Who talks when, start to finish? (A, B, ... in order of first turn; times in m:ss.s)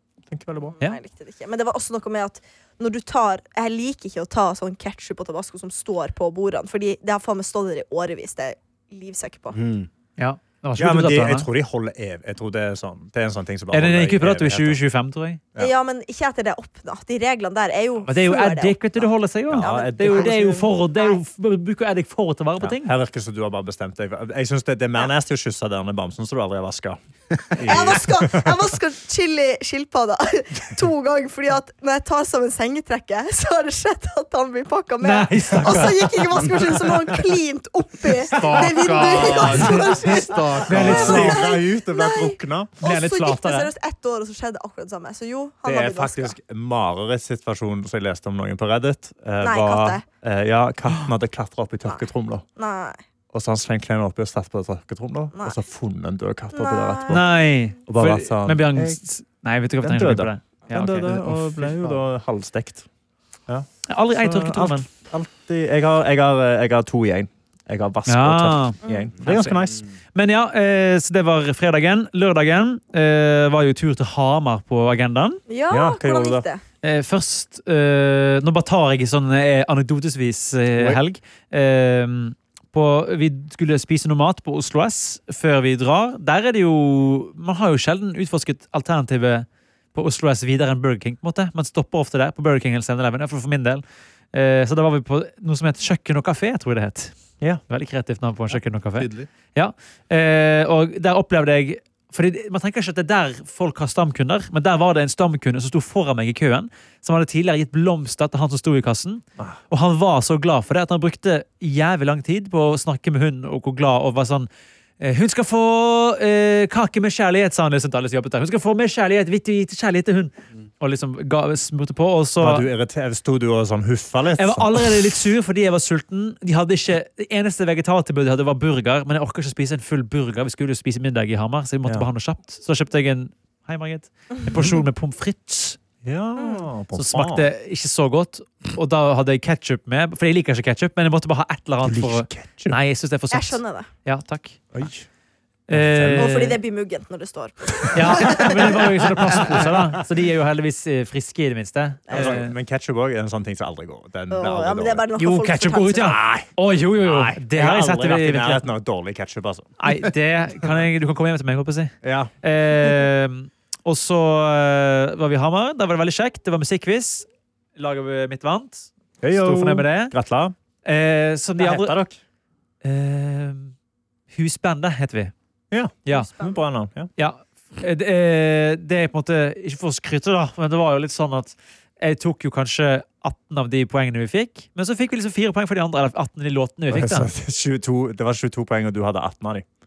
0:00.3-0:00.8 A
0:00.8-0:09.6 B
0:09.5-0:09.9 C
0:10.2-0:11.5 D
0:10.8-0:14.8 A
0:13.7-0:15.4 D
0:15.6-0:21.2 B
0:18.1-0:22.9 D
0:19.5-0:20.7 A
0:22.6-0:28.7 A
0:27.6-0:46.4 B
0:35.0-0:36.7 D
0:38.3-0:41.4 C
0:38.4-0:39.8 D
0:40.7-0:41.4 D
0:40.7-0:42.8 A
0:42.8-0:43.7 D
0:45.7-0:52.4 A
0:49.4-0:50.0 B
0:51.8-0:53.0 B
0:53.3-0:57.3 A
0:55.3-0:55.6 B
0:56.5-0:57.2 B
0:57.1-1:01.7 D
0:57.9-0:59.0 A
0:59.8-1:02.8 A
1:01.0-1:02.0 C
1:03.9-1:04.9 D
1:04.2-1:09.8 A
1:08.1-1:09.6 D
1:08.8-1:09.1 B
1:10.2-1:15.4 D
1:15.5-1:16.6 B
1:15.7-1:16.5 A
1:16.8-1:33.8 D
1:34.3-1:37.1 D
1:37.7-1:54.5 D
1:39.0-1:39.3 C
1:55.0-2:02.7 D
2:02.4-2:05.0 A
2:04.4-2:15.8 D
2:16.0-2:17.5 A
2:16.4-2:16.7 B
2:16.9-2:24.8 D
2:21.8-2:22.8 A
2:23.3-2:23.9 B
2:24.7-2:25.1 A
2:25.7-2:26.6 D
2:25.7-2:26.3 A
2:26.2-2:28.8 B
2:27.9-2:32.5 D
2:29.4-2:29.9 A
2:32.1-2:32.4 B
2:32.1-2:35.1 A
2:34.3-2:36.2 B
2:35.2-2:38.7 D
2:36.0-2:36.5 A
2:37.0-2:39.7 A
2:39.8-2:50.1 D
2:42.0-2:42.3 A
2:49.2-2:50.6 A
2:50.8-2:52.0 D
2:51.6-2:52.2 A
2:52.8-2:53.7 D
2:54.3-2:55.3 D
2:55.7-2:57.1 A
2:56.1-2:56.6 B
2:57.2-3:07.3 D
3:06.9-3:09.6 A